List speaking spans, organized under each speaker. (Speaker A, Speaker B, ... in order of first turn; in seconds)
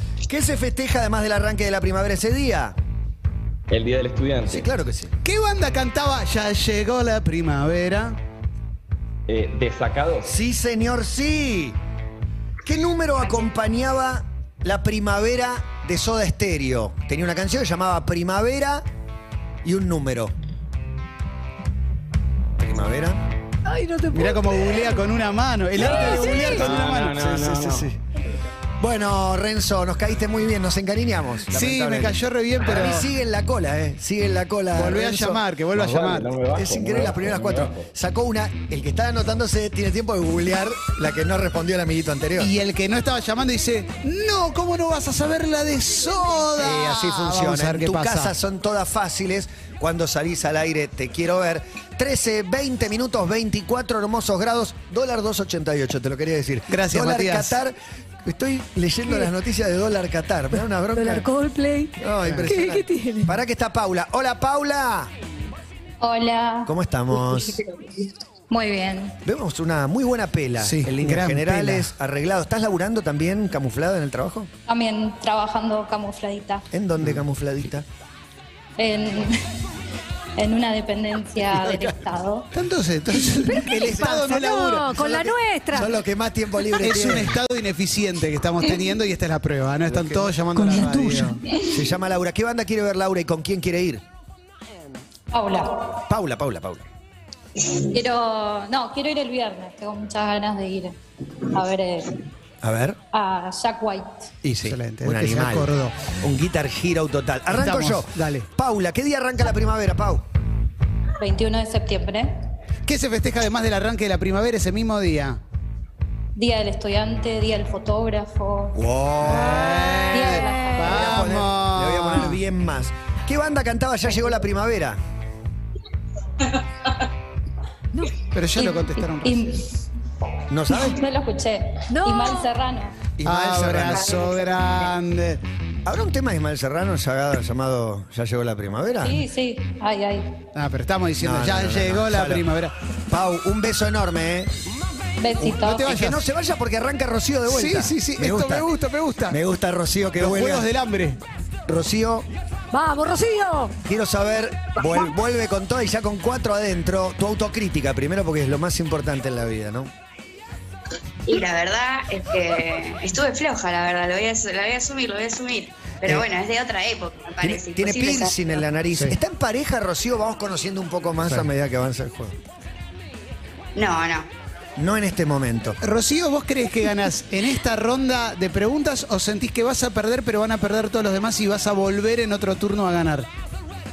Speaker A: 0.3-2.8, 4.5-5.1, 10.2-11.8, 12.7-18.9, 19.6-20.4, 22.6-23.2, 25.9-27.9, 28.8-35.4, 36.5-42.5, 46.6-61.3, 62.0-65.1, 66.7-67.6, 69.2-74.5, 76.7-77.9, 81.6-81.9, 84.9-87.4, 91.7-94.0, 96.1-96.9, 102.6-103.0, 104.4-110.2, 118.8-119.9, 120.8-125.0, 130.5-131.0, 133.2-134.2, 135.8-139.2, 141.2-142.5, 143.1-144.5, 145.9-148.7, 149.3-150.7, 151.7-152.3, 153.8-159.9, 167.4-172.4, 174.8-175.8
Speaker B: 3.7-4.7, 9.3-10.3, 25.8-27.9, 35.7-37.9
Speaker C: 5.2-8.2, 24.1-27.5, 31.5-33.1, 34.8-36.4, 42.4-48.3, 56.7-57.6, 62.2-62.5, 70.6-71.9, 82.5-85.0, 86.8-91.4, 104.6-106.0, 107.5-108.5, 112.9-115.4, 119.2-122.4, 128.3-129.5, 133.2-135.4, 140.6-142.7, 145.4-146.2, 147.5-149.4, 150.2-151.2, 175.8-183.3
Speaker D: 23.6-25.0, 25.9-26.6, 61.0-63.4, 83.2-86.0, 90.5-91.4, 119.4-121.0, 127.9-128.2, 131.9-132.5, 152.7-153.8
Speaker E: 66.0-66.7, 68.5-69.2, 74.7-76.7, 78.8-79.6, 80.4-82.5, 95.3-96.0, 97.6-102.2, 103.1-104.3, 111.2-112.3, 116.3-118.8, 120.1-120.9, 128.6-129.8, 130.7-133.0, 139.0-140.4, 145.2-145.9
Speaker F: 161.3-168.4, 173.8-174.3